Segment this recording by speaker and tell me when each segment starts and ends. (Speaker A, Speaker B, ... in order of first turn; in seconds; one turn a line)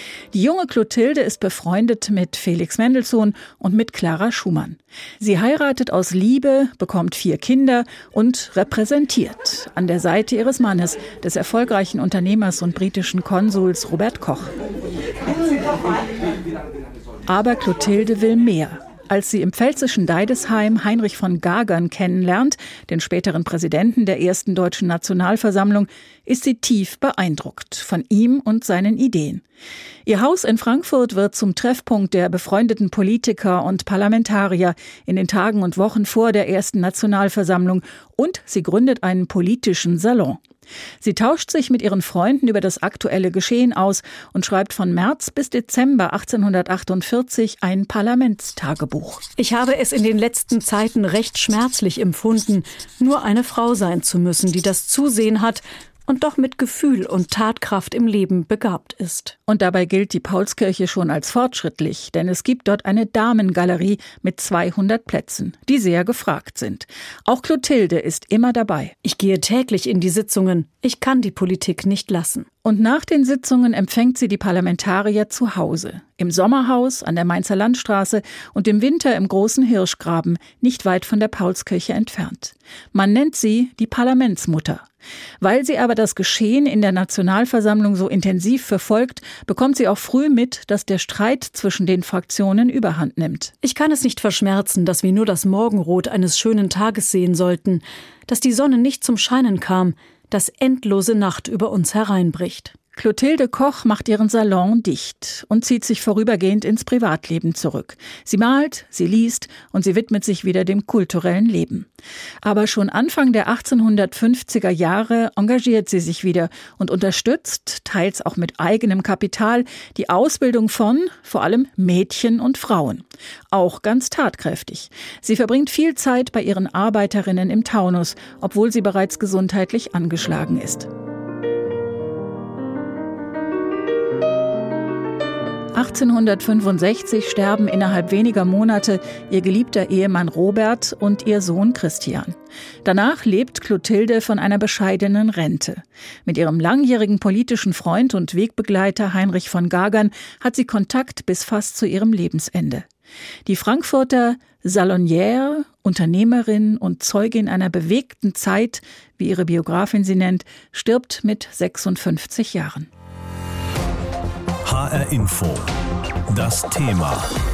Speaker A: 0.3-14.5
Speaker A: 17.3-29.4
Speaker A: 30.1-40.4
Speaker A: 41.0-49.2
Speaker B: 49.4-59.4
Speaker A: 59.5-69.0
Speaker B: 69.0-72.5
Speaker A: 72.6-84.8
Speaker A: 85.4-93.5
Speaker B: 93.6-102.8
Speaker A: 103.0-111.9
Speaker A: 112.4-130.9
Speaker A: 135.8-152.9
Speaker A: 153.5-162.9
Speaker C: 164.7-165.7
Speaker C: 166.3-167.3